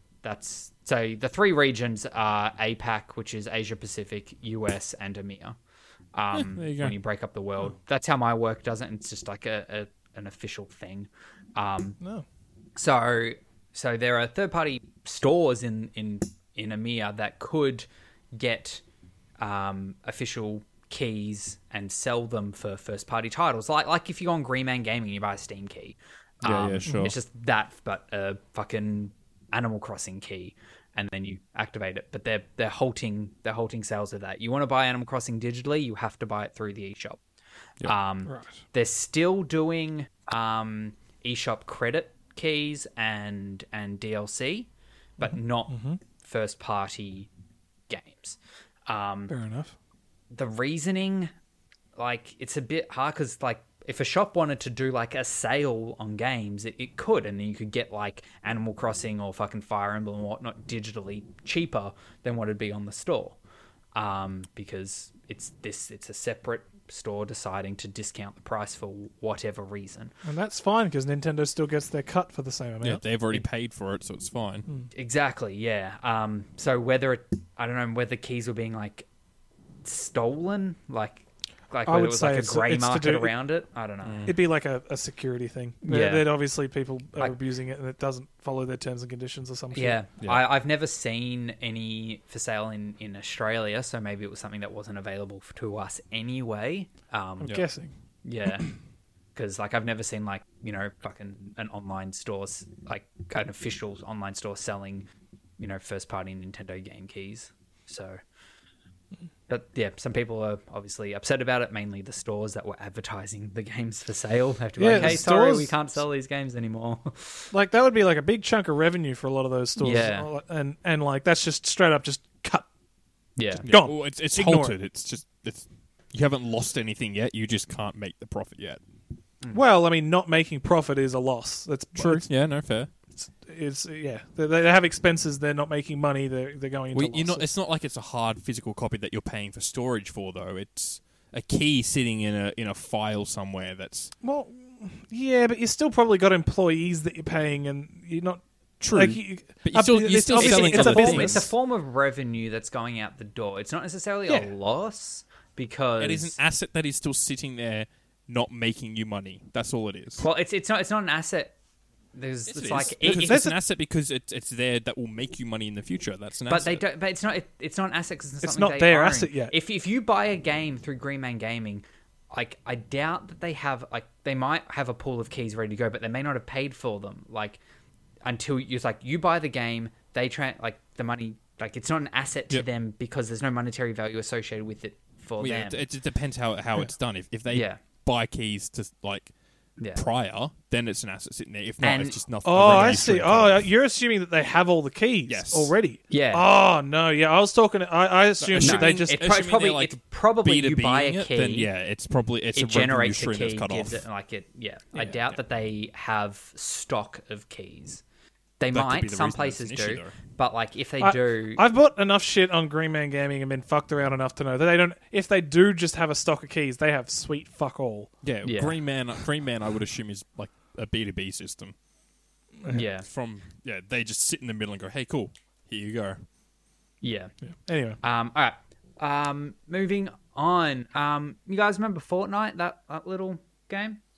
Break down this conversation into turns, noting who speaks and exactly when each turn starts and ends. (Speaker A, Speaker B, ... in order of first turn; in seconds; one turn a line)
Speaker A: 0.2-5.6
Speaker A: 6.2-12.0
Speaker B: 6.3-7.0
Speaker A: 12.8-18.8
Speaker A: 19.4-37.2
Speaker B: 26.4-27.1
Speaker A: 37.8-47.3
Speaker C: 38.3-38.6
Speaker C: 45.2-46.0
Speaker A: 47.9-49.3
Speaker C: 49.3-49.7
Speaker A: 50.3-51.3
Speaker A: 52.0-63.4
Speaker A: 64.0-70.1
Speaker C: 70.2-73.0
Speaker B: 72.8-74.7
Speaker A: 74.9-79.1
Speaker A: 79.8-84.3
Speaker C: 81.9-83.3
Speaker B: 84.0-84.3
Speaker C: 84.3-90.0
Speaker A: 85.9-86.2
Speaker A: 89.7-97.6
Speaker C: 97.4-97.9
Speaker A: 98.2-98.7
Speaker A: 99.3-105.1
Speaker A: 105.6-108.2
Speaker A: 109.5-117.5
Speaker C: 114.8-115.8
Speaker C: 117.5-122.7
Speaker A: 119.8-120.3
Speaker A: 123.4-123.7
Speaker C: 123.6-124.8
Speaker B: 123.7-128.8
Speaker C: 129.5-132.3
Speaker B: 131.9-132.9
Speaker C: 133.2-137.5
Speaker B: 136.9-144.1
Speaker C: 144.2-151.5
Speaker B: 148.8-151.5
Speaker A: 150.4-156.4
Speaker B: 156.0-160.2
Speaker A: 160.2-161.5
Speaker A: 162.2-163.4
Speaker B: 162.5-166.8
Speaker C: 163.1-163.6
Speaker A: 166.5-177.6
Speaker C: 168.4-169.5
Speaker A: 178.2-185.8
Speaker B: 185.4-189.3
Speaker A: 187.5-187.8
Speaker B: 189.9-193.7
Speaker A: 191.8-192.2
Speaker C: 192.4-199.2
Speaker B: 195.3-195.8
Speaker A: 196.1-196.4
Speaker B: 198.4-204.0
Speaker A: 198.6-201.7
Speaker A: 202.5-208.0
Speaker A: 208.6-211.6
Speaker B: 208.7-210.2
Speaker C: 211.0-218.1
Speaker B: 218.2-221.8
Speaker A: 218.4-218.8
Speaker A: 222.7-223.1
Speaker B: 223.1-226.2
Speaker A: 227.0-227.3
Speaker C: 227.7-228.0
Speaker A: 228.0-234.0